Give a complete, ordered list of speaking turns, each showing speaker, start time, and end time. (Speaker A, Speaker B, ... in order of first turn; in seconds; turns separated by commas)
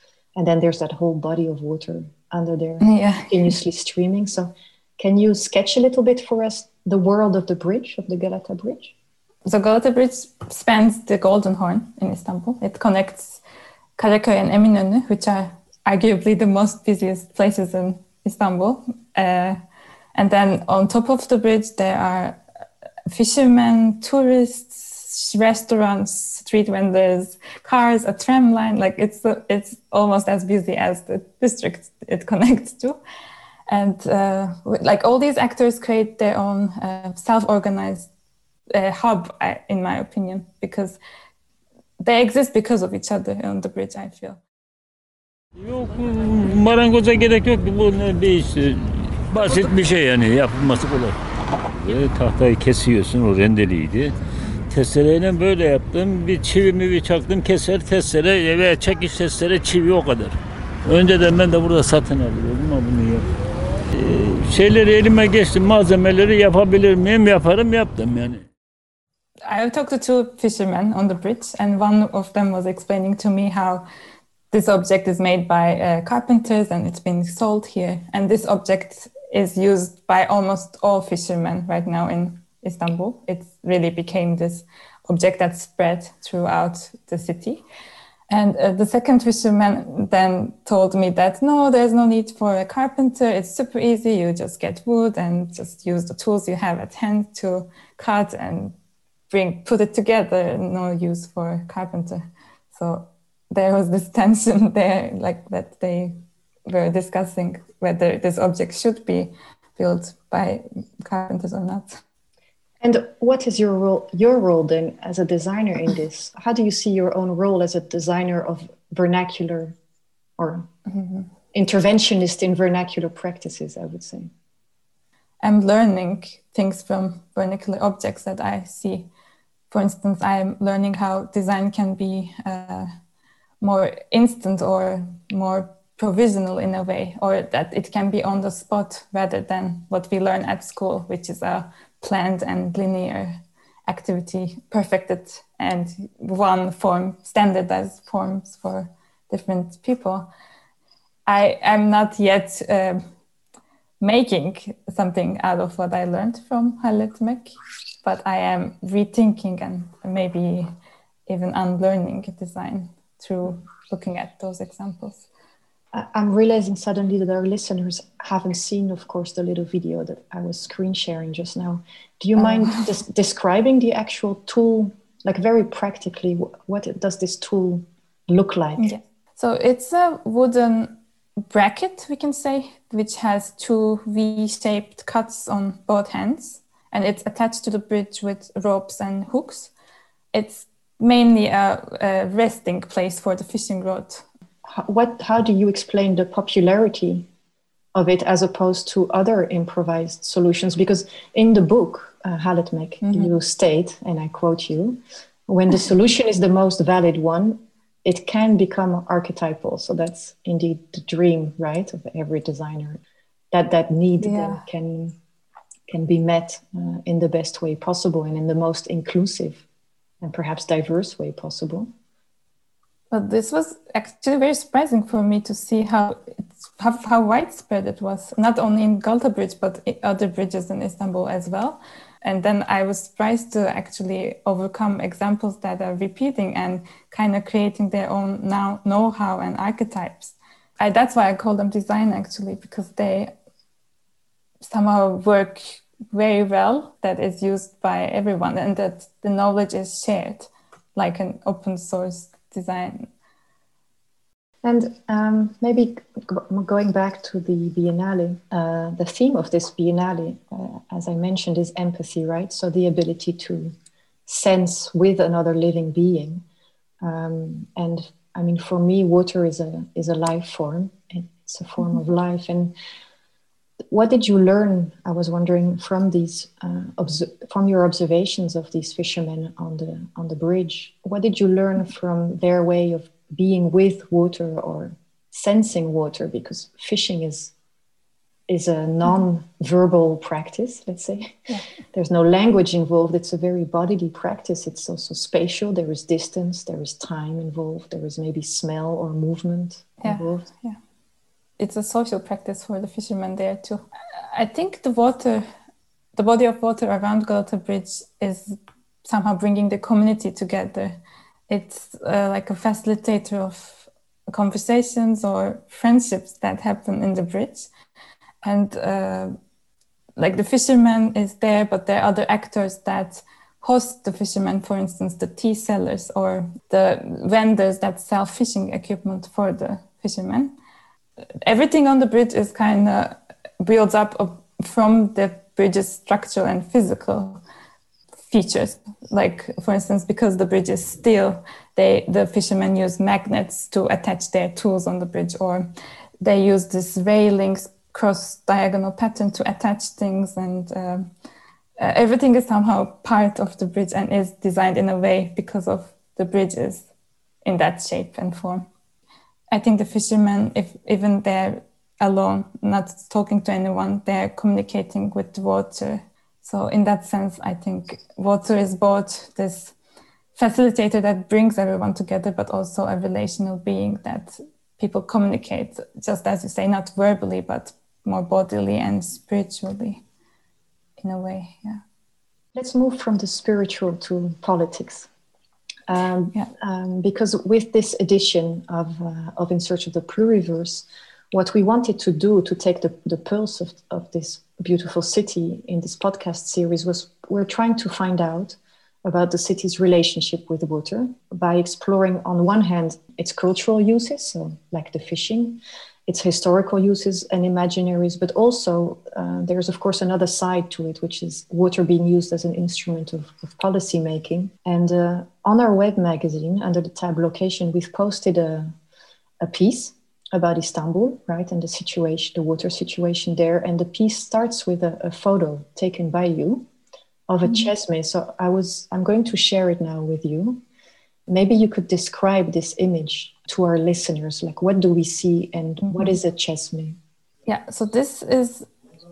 Speaker A: 0.3-8.9, Speaker B: 2.8-3.5, Speaker B: 9.4-13.4, Speaker B: 14.0-19.6, Speaker B: 20.1-22.4, Speaker B: 23.1-33.0, Speaker B: 33.7-38.1, Speaker B: 38.7-41.0, Speaker B: 42.0-44.4, Speaker C: 45.6-51.1, Speaker C: 51.8-54.1, Speaker C: 54.7-63.3, Speaker C: 63.9-68.5, Speaker B: 69.5-73.8, Speaker B: 74.5-87.6, Speaker B: 88.3-98.7, Speaker B: 99.3-106.1, Speaker B: 106.7-112.0, Speaker A: 112.8-119.8, Speaker A: 120.4-120.7, Speaker B: 120.9-121.3, Speaker A: 121.5-124.3, Speaker B: 125.4-129.1, Speaker B: 129.7-132.9, Speaker B: 133.6-150.3, Speaker B: 151.3-153.0, Speaker B: 154.0-160.7, Speaker B: 161.3-165.2, Speaker A: 165.9-178.9, Speaker B: 172.4-172.9, Speaker B: 178.8-180.9, Speaker B: 181.5-189.7, Speaker B: 190.3-194.2, Speaker A: 194.7-197.2, Speaker A: 197.9-213.0, Speaker B: 203.0-203.3, Speaker A: 213.5-215.2, Speaker B: 214.2-214.6, Speaker A: 215.9-219.6, Speaker A: 220.2-221.9, Speaker B: 223.1-243.3, Speaker B: 244.6-253.1, Speaker A: 254.6-263.7, Speaker A: 264.3-266.4, Speaker A: 267.0-272.7, Speaker A: 273.9-287.5, Speaker A: 288.5-291.4, Speaker A: 291.9-300.5, Speaker B: 300.0-300.8, Speaker B: 301.6-305.4, Speaker B: 306.1-311.0, Speaker B: 311.5-317.7, Speaker B: 318.4-319.3, Speaker B: 320.2-330.5, Speaker B: 331.4-337.4, Speaker B: 338.3-345.7, Speaker B: 346.2-351.1, Speaker B: 351.8-356.9, Speaker B: 357.4-358.6, Speaker B: 359.5-369.7, Speaker B: 370.3-380.0, Speaker B: 381.0-381.8, Speaker A: 382.5-385.1, Speaker A: 385.9-418.7, Speaker A: 419.4-426.6, Speaker A: 427.3-430.6, Speaker A: 431.3-437.0, Speaker B: 435.8-436.1, Speaker B: 437.4-438.7